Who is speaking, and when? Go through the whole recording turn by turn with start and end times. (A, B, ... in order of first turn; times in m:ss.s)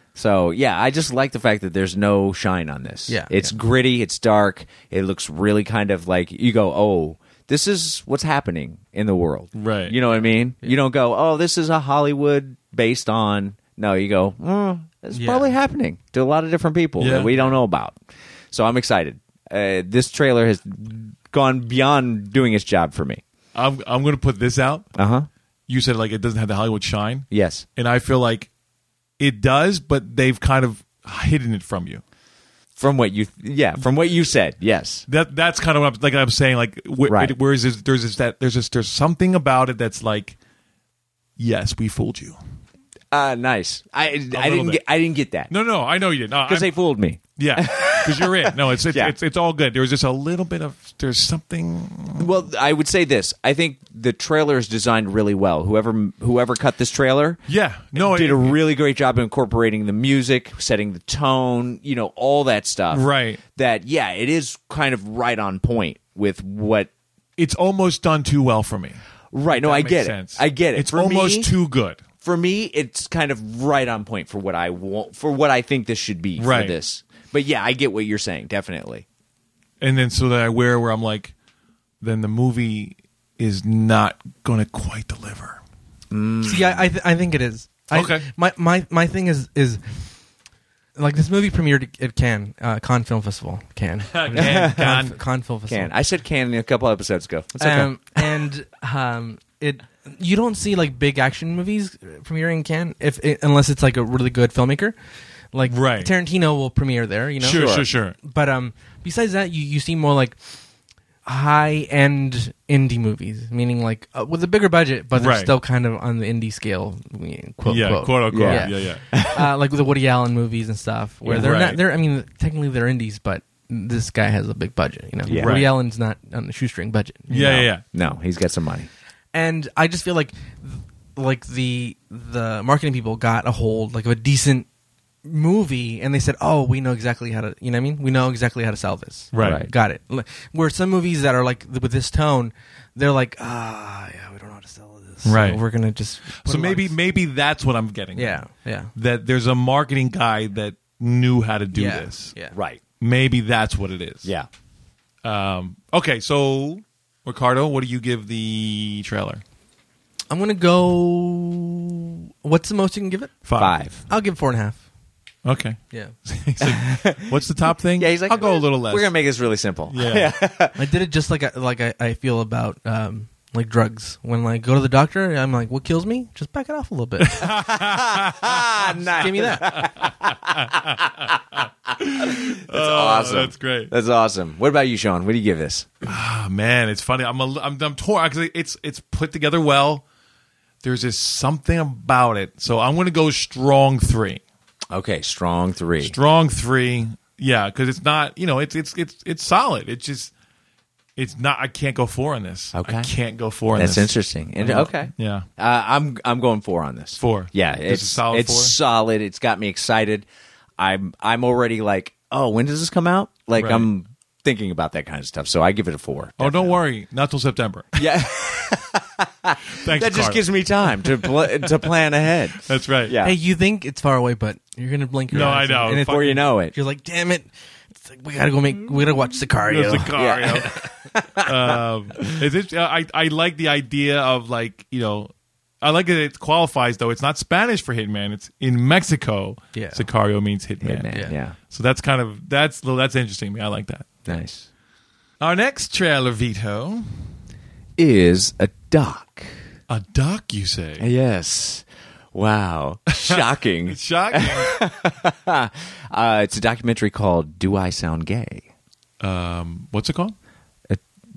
0:00.2-0:18.0 A
0:03.1-0:03.5 B
0:09.6-0:10.0 C
0:15.1-0:15.5 B
0:17.0-0:17.4 C
0:18.5-0:23.2 A
0:23.5-0:24.9 C
0:25.0-0:25.3 A
0:25.7-0:28.5 C
0:27.3-0:27.6 A
0:29.2-0:32.0 C
0:32.8-0:35.0 A
0:35.1-0:40.4 C
0:37.1-0:37.4 A
0:41.4-0:42.4 C
0:43.1-0:45.5 A
0:44.3-0:44.8 C
0:45.5-0:52.4 C
0:46.5-0:49.1 A
0:52.2-0:57.4 A
0:57.5-0:58.6 C
0:57.9-1:06.9 A
1:02.9-1:03.4 C
1:07.4-1:12.0 C
1:09.3-1:11.5 A
1:12.2-1:19.0 A
1:16.4-1:16.8 C
1:19.8-1:21.3 C
1:22.0-1:25.6 C
1:26.1-1:26.8 A
1:26.4-1:30.1 B
1:27.9-1:28.3 C
1:31.0-1:35.9 B
1:34.1-1:35.2 C
1:34.3-1:34.9 A
1:35.7-1:38.2 A
1:37.6-1:45.0 B
1:45.5-1:50.6 B
1:45.7-1:46.1 C
1:47.4-1:48.2 C
1:47.4-1:47.9 A
1:51.2-2:07.7 B
1:55.2-1:55.5 C
1:57.6-1:59.1 C
1:58.3-1:59.5 A
2:01.3-2:01.8 C
2:05.3-2:05.6 A
2:05.3-2:05.7 C
2:07.3-2:07.8 C
2:07.8-2:08.9 A
2:09.3-2:14.7 B
2:15.2-2:26.9 B
2:19.3-2:19.7 C
2:19.4-2:19.7 A
2:25.2-2:25.6 C
2:26.4-2:28.4 C
2:28.2-2:28.9 B
2:29.0-2:32.3 C
2:31.7-2:32.6 B
2:32.5-2:32.8 A
2:33.0-2:34.3 C
2:34.2-2:34.5 A
2:35.2-2:39.4 C
2:40.3-2:43.4 B
2:43.4-2:43.8 C
2:43.6-2:44.0 A
2:44.1-2:44.8 B
2:45.4-2:49.1 C
2:46.6-2:47.4 A
2:48.0-2:50.8 A
2:49.9-2:50.3 C
2:50.8-2:57.5 B
2:57.2-3:01.3 C
2:57.4-3:01.7 A
2:59.2-2:59.7 B
3:01.9-3:03.9 C
3:02.2-3:05.9 A
3:06.1-3:10.0 C
3:10.8-3:14.4 C
3:14.9-3:16.2 A
3:16.0-3:20.3 C
3:21.2-3:25.5 C
3:22.7-3:23.1 A
3:23.7-3:30.3 A
3:27.2-3:28.8 C
3:30.8-3:36.8 A
3:33.6-3:33.9 C
3:36.4-3:38.0 C
3:38.0-3:43.4 A
3:39.8-3:40.4 C
3:41.0-3:41.9 C
3:42.6-3:43.2 C
3:43.2-3:50.2 B
3:45.3-3:46.4 C
3:45.3-3:46.7 A
3:49.7-3:50.7 C
3:50.2-3:51.8 A
3:51.4-4:04.3 C
3:59.7-4:00.0 B
4:00.8-4:01.6 A
4:04.3-4:04.7 A
4:05.4-4:07.1 C
4:08.0-4:09.5 A
4:09.9-4:11.1 C
4:11.0-4:18.7 A
4:13.2-4:14.8 C
4:19.2-4:20.4 C